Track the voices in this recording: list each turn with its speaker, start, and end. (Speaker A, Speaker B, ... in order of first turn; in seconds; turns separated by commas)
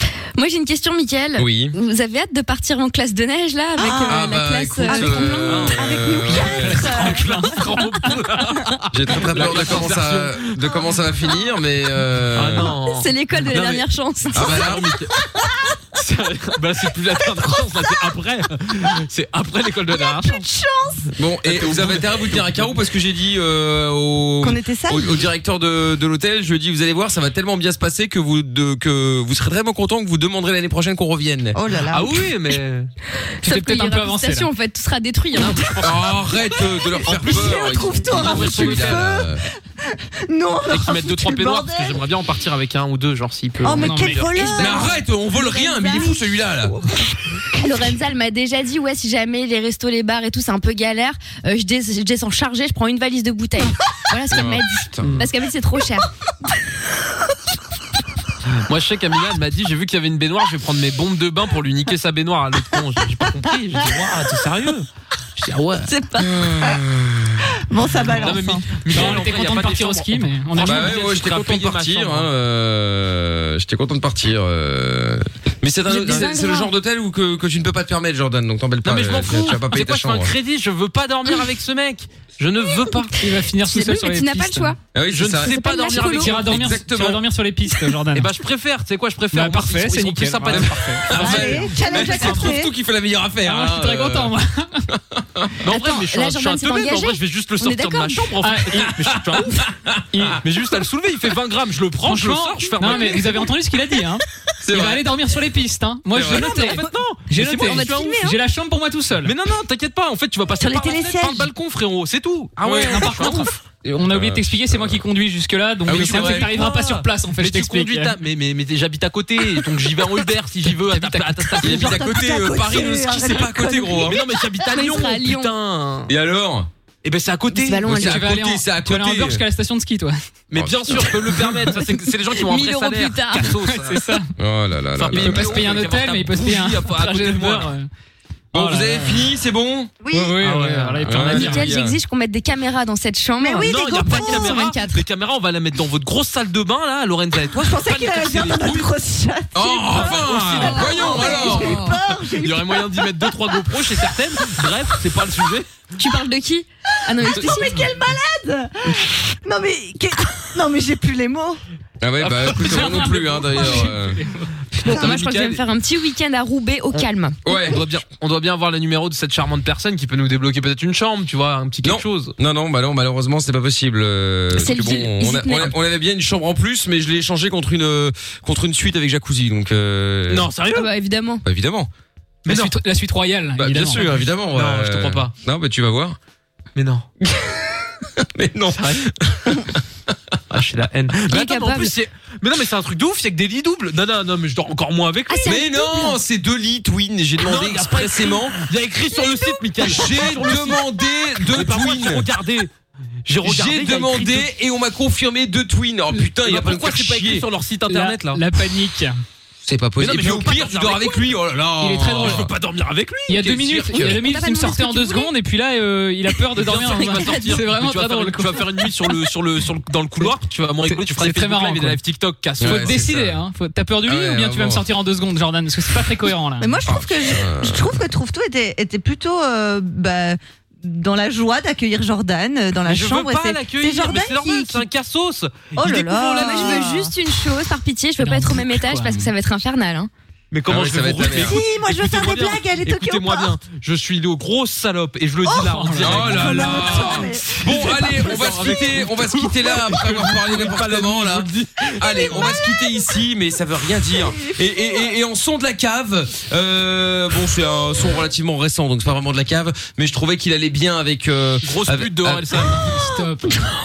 Speaker A: 0.3-5.6, Speaker B: 1.4-1.8, Speaker C: 3.8-7.6, Speaker B: 4.1-7.0, Speaker D: 5.5-5.8, Speaker E: 6.3-8.2, Speaker D: 6.8-10.8, Speaker B: 8.9-12.7, Speaker D: 12.3-15.2, Speaker A: 12.8-14.6, Speaker B: 14.3-14.9, Speaker D: 15.9-20.4, Speaker C: 19.9-21.1, Speaker B: 21.1-31.6, Speaker D: 21.4-22.6, Speaker C: 24.4-25.2, Speaker C: 31.5-32.1, Speaker D: 31.9-32.9, Speaker A: 33.4-35.8, Speaker E: 33.4-34.5, Speaker D: 35.4-36.1, Speaker B: 35.8-39.4, Speaker D: 37.0-39.0, Speaker C: 37.0-42.0, Speaker D: 40.7-44.2, Speaker C: 43.6-45.0, Speaker E: 43.7-44.2, Speaker A: 44.3-46.2, Speaker B: 44.6-46.7, Speaker A: 47.5-56.1, Speaker B: 54.3-55.2, Speaker D: 55.0-55.3, Speaker D: 58.5-65.9, Speaker A: 65.8-66.3, Speaker B: 66.2-67.5, Speaker C: 67.7-69.0, Speaker D: 67.9-72.3, Speaker E: 68.9-71.0, Speaker B: 70.6-80.3, Speaker A: 75.9-76.7, Speaker D: 78.8-83.1, Speaker E: 83.2-84.7, Speaker A: 83.2-84.8, Speaker B: 84.9-87.2, Speaker D: 85.1-86.8, Speaker A: 85.4-86.4, Speaker E: 86.0-88.3, Speaker D: 88.1-91.2, Speaker E: 89.3-92.5, Speaker B: 90.5-94.3, Speaker C: 91.1-92.7, Speaker E: 93.4-94.8, Speaker B: 94.9-95.5, Speaker D: 95.6-99.6, Speaker A: 95.7-98.3, Speaker E: 98.4-98.9, Speaker B: 99.1-100.4, Speaker E: 100.1-100.4, Speaker D: 100.4-103.5, Speaker E: 102.0-109.3, Speaker B: 104.6-105.0, Speaker D: 106.1-108.2, Speaker C: 106.2-108.3, Speaker A: 107.6-108.3, Speaker D: 109.2-113.6, Speaker C: 110.6-111.5, Speaker B: 112.6-113.3, Speaker E: 112.8-118.2, Speaker B: 114.1-115.0, Speaker B: 115.8-116.6, Speaker D: 115.9-122.2, Speaker C: 116.5-116.9, Speaker E: 120.7-121.8, Speaker B: 121.6-124.2, Speaker C: 121.7-124.2, Speaker D: 123.9-126.1, Speaker A: 124.6-125.5, Speaker B: 126.1-126.7, Speaker D: 127.0-127.9, Speaker A: 127.5-128.3, Speaker B: 127.8-129.4, Speaker E: 127.9-130.2, Speaker D: 130.5-134.2, Speaker B: 130.6-131.0, Speaker A: 132.4-133.5, Speaker E: 133.6-134.3, Speaker B: 134.4-135.9, Speaker D: 135.0-137.7, Speaker E: 135.1-137.9, Speaker B: 138.5-140.1, Speaker E: 138.5-139.2, Speaker C: 140.0-140.4, Speaker E: 140.1-141.7, Speaker D: 140.4-141.1, Speaker B: 141.0-141.9, Speaker A: 141.1-145.0, Speaker C: 143.4-144.6, Speaker D: 143.6-148.9, Speaker C: 147.5-154.0, Speaker B: 149.5-152.0, Speaker D: 149.9-151.8, Speaker A: 150.7-151.9, Speaker D: 152.3-155.7, Speaker A: 156.0-157.8, Speaker C: 157.2-161.6, Speaker B: 162.0-164.2, Speaker D: 162.2-163.6, Speaker E: 162.6-164.5, Speaker D: 164.7-165.6, Speaker C: 164.8-165.2, Speaker A: 164.8-167.4, Speaker B: 167.4-167.8, Speaker D: 167.5-172.3, Speaker B: 171.8-180.5, Speaker A: 174.5-175.7, Speaker D: 180.3-180.9, Speaker A: 180.7-181.4, Speaker B: 181.4-181.9, Speaker D: 182.4-182.7, Speaker E: 182.5-184.2, Speaker B: 183.6-186.2, Speaker D: 184.5-185.3, Speaker D: 186.7-187.1, Speaker B: 187.2-190.1, Speaker D: 188.7-189.1, Speaker D: 190.5-195.5, Speaker A: 191.3-191.9, Speaker A: 195.3-196.2, Speaker B: 195.4-198.6, Speaker D: 197.4-200.8, Speaker A: 199.3-199.6, Speaker B: 199.8-202.3, Speaker D: 201.5-202.7, Speaker D: 203.2-204.5, Speaker B: 203.4-207.5, Speaker D: 206.4-208.4, Speaker E: 207.9-209.2, Speaker B: 209.6-212.5, Speaker D: 210.0-211.3, Speaker E: 211.8-212.5, Speaker D: 212.1-214.1, Speaker E: 213.3-218.7, Speaker A: 214.0-215.3, Speaker D: 216.5-223.3, Speaker A: 217.0-217.6, Speaker E: 220.8-222.0, Speaker B: 222.6-223.3, Speaker E: 222.6-226.8, Speaker B: 224.0-224.8, Speaker C: 226.6-234.8, Speaker B: 226.8-228.0, Speaker D: 232.8-236.8, Speaker C: 235.8-237.1, Speaker A: 236.3-240.1, Speaker E: 238.2-239.3, Speaker D: 240.5-252.5, Speaker B: 240.7-241.6, Speaker C: 241.3-243.5, Speaker C: 245.4-249.0, Speaker E: 245.6-246.3, Speaker B: 246.0-262.6, Speaker C: 252.2-252.7, Speaker C: 254.1-254.6, Speaker D: 261.6-262.9, Speaker E: 262.8-263.6